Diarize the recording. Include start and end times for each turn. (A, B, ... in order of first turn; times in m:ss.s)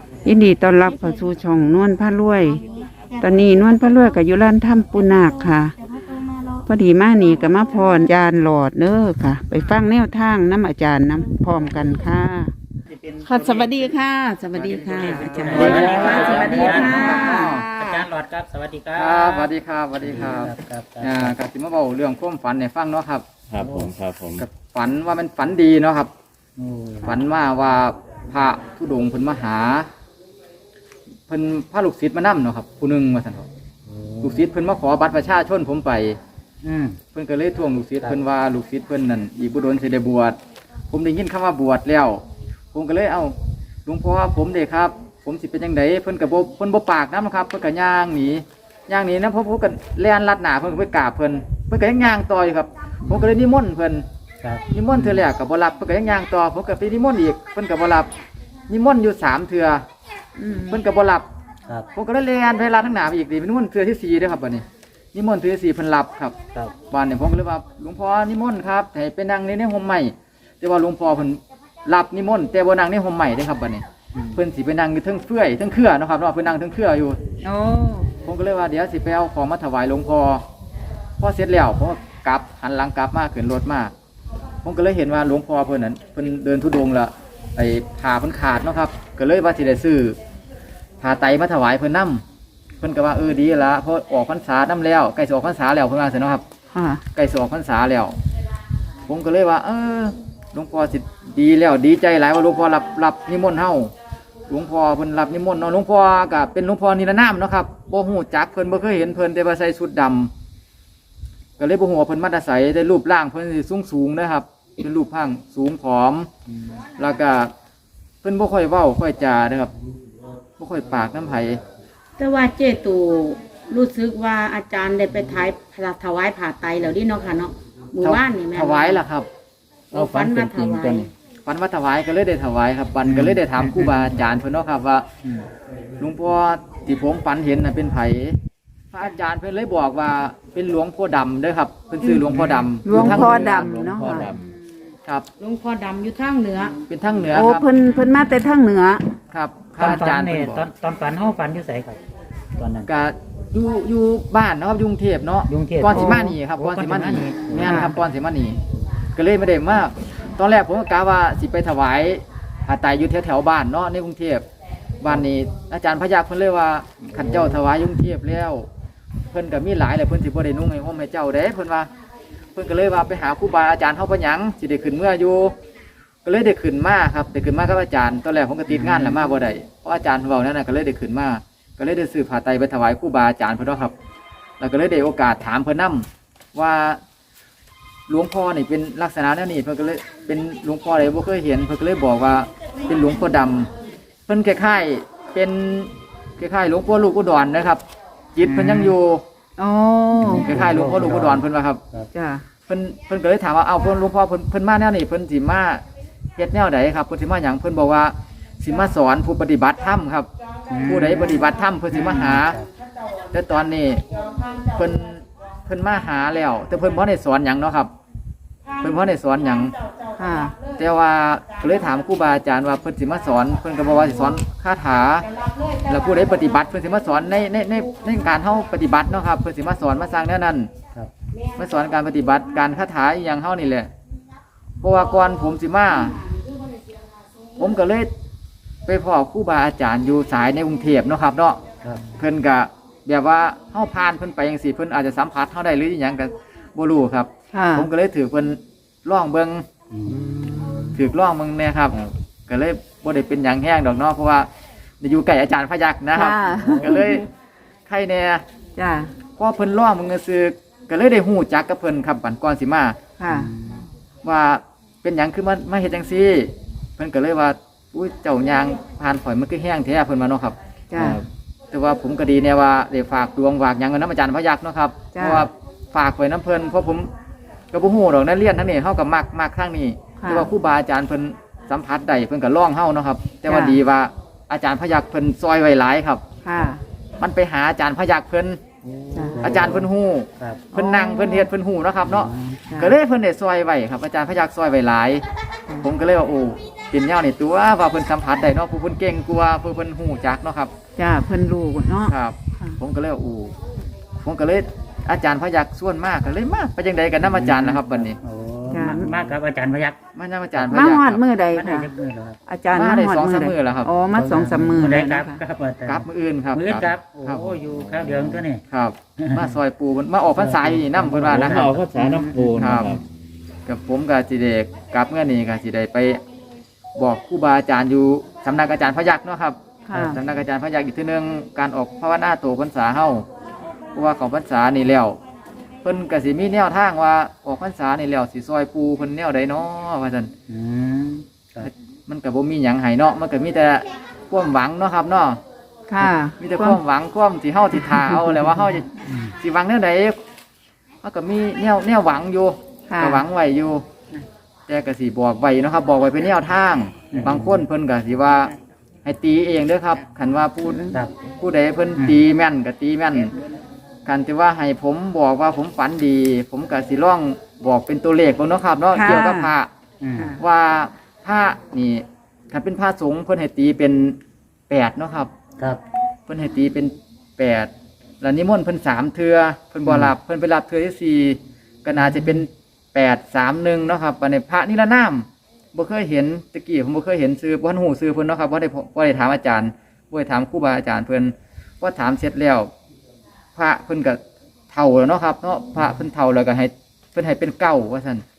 0:00.2-0:02.6 A
0:03.2-0:05.7 A
0:06.6-0:12.5 A
0:12.9-0:13.9 B
0:13.2-0:18.0 A
0:14.5-0:21.4 B
0:15.5-0:17.7 C
0:15.6-0:16.9 D
0:18.9-0:23.2 C
0:23.5-0:24.4 D
0:23.6-0:23.9 B
0:24.4-0:26.1 C
0:26.6-0:27.2 B
0:27.0-0:29.9 C
0:31.3-0:33.5 C
0:33.9-0:34.4 B
0:34.2-0:36.2 C
0:36.6-0:37.0 B
0:37.1-0:40.4 C
0:40.9-0:42.2 C
0:42.7-0:54.1 C
0:54.4-0:55.2 B
0:54.7-0:58.1 C
0:58.7-0:59.9 C
1:00.4-1:00.8 A
1:00.7-1:01.3 C
1:01.9-1:06.4 C
1:06.9-1:17.2 C
1:17.4-1:18.1 A
1:18.2-1:20.4 C
1:21.2-1:23.9 C
1:24.6-1:30.2 C
1:31.0-1:32.2 C
1:32.8-1:36.4 C
1:36.7-1:37.0 A
1:37.1-1:38.2 C
1:39.1-1:43.9 C
1:44.5-1:50.3 C
1:51.6-1:56.3 C
1:57.0-1:57.5 C
1:58.2-1:59.7 C
2:00.6-2:01.6 C
2:02.2-2:09.0 E
2:08.0-2:09.3 C
2:09.9-2:11.1 E
2:09.9-2:11.1 D
2:11.4-2:15.1 C
2:13.0-2:14.0 B
2:16.0-2:18.4 C
2:18.9-2:23.6 C
2:22.3-2:22.7 B
2:22.8-2:24.3 A
2:22.9-2:24.5 D
2:25.4-2:26.8 E
2:26.9-2:27.7 C
2:27.3-2:29.0 A
2:29.3-2:30.6 C
2:29.8-2:32.0 B
2:32.6-2:32.9 B
2:32.8-2:38.6 C
2:35.5-2:38.0 B
2:35.9-2:36.4 A
2:37.6-2:37.9 A
2:39.1-2:44.4 C
2:45.0-2:48.7 C
2:49.3-2:51.9 C
2:52.5-2:55.5 C
2:56.2-3:03.9 C
2:58.7-2:59.2 B
3:04.6-3:07.0 C
3:08.1-3:13.7 C
3:14.3-3:17.8 C
3:18.3-3:19.2 C
3:19.6-3:20.5 A
3:20.2-3:22.1 B
3:20.2-3:21.8 C
3:22.1-3:22.4 A
3:22.7-3:25.8 C
3:26.4-3:30.3 C
3:30.7-3:31.4 B
3:30.8-3:32.6 C
3:31.9-3:32.7 B
3:33.3-3:34.0 C
3:34.6-3:37.9 C
3:38.8-3:39.7 C
3:40.2-3:40.5 A
3:40.7-3:45.3 C
3:45.8-3:50.7 C
3:51.6-3:53.9 C
3:54.8-3:56.2 C
3:57.6-3:58.1 C
3:58.8-4:01.6 C
4:02.1-4:09.6 C
4:07.5-4:07.9 A
4:09.9-4:10.2 B
4:10.0-4:11.0 D
4:10.9-4:14.5 C
4:15.0-4:17.3 C
4:16.1-4:17.2 A
4:16.6-4:16.9 B
4:17.9-4:18.4 C
4:18.8-4:19.1 A
4:19.4-4:23.0 C
4:23.2-4:23.5 A
4:23.3-4:23.8 B
4:24.2-4:30.6 C
4:30.9-4:31.2 A
4:31.0-4:31.2 D
4:31.7-4:37.1 C
4:35.1-4:35.5 A
4:37.7-4:46.2 C
4:40.2-4:40.5 A
4:43.5-4:43.8 A
4:46.4-4:46.8 A
4:47.2-4:48.6 C
4:48.9-4:50.6 B
4:49.1-4:49.4 A
4:49.4-4:55.2 C
4:50.7-4:51.5 A
4:52.0-4:52.6 B
4:52.7-4:52.9 A
4:55.8-5:00.7 C
5:01.0-5:02.8 A
5:02.0-5:03.5 C
5:04.2-5:08.2 C
5:07.2-5:10.0 B
5:08.7-5:09.1 A
5:10.1-5:11.2 C
5:10.6-5:11.9 A
5:11.5-5:12.4 B
5:12.5-5:15.4 A
5:12.7-5:13.9 C
5:14.1-5:18.6 B
5:15.8-5:17.5 C
5:17.7-5:18.4 D
5:18.7-5:21.8 C
5:19.2-5:19.6 B
5:20.4-5:22.3 B
5:21.1-5:23.0 D
5:22.5-5:23.0 C
5:23.6-5:26.2 C
5:27.0-5:33.3 C
5:29.9-5:30.2 A
5:33.9-5:35.2 C
5:35.8-5:40.3 C
5:40.5-5:41.7 B
5:41.6-5:45.4 C
5:45.9-5:46.8 A
5:46.0-5:50.2 C
5:49.0-5:49.3 B
5:51.0-5:53.8 C
5:52.9-5:53.2 A
5:54.7-5:58.5 C
5:57.1-5:57.6 B
5:59.0-6:03.3 C
6:04.0-6:09.7 C
6:08.9-6:09.5 A
6:10.0-6:10.3 B
6:10.4-6:14.2 C
6:14.7-6:15.3 C
6:16.3-6:32.7 C
6:19.8-6:20.1 B
6:22.0-6:22.3 B
6:33.6-6:34.2 C
6:34.7-6:38.2 C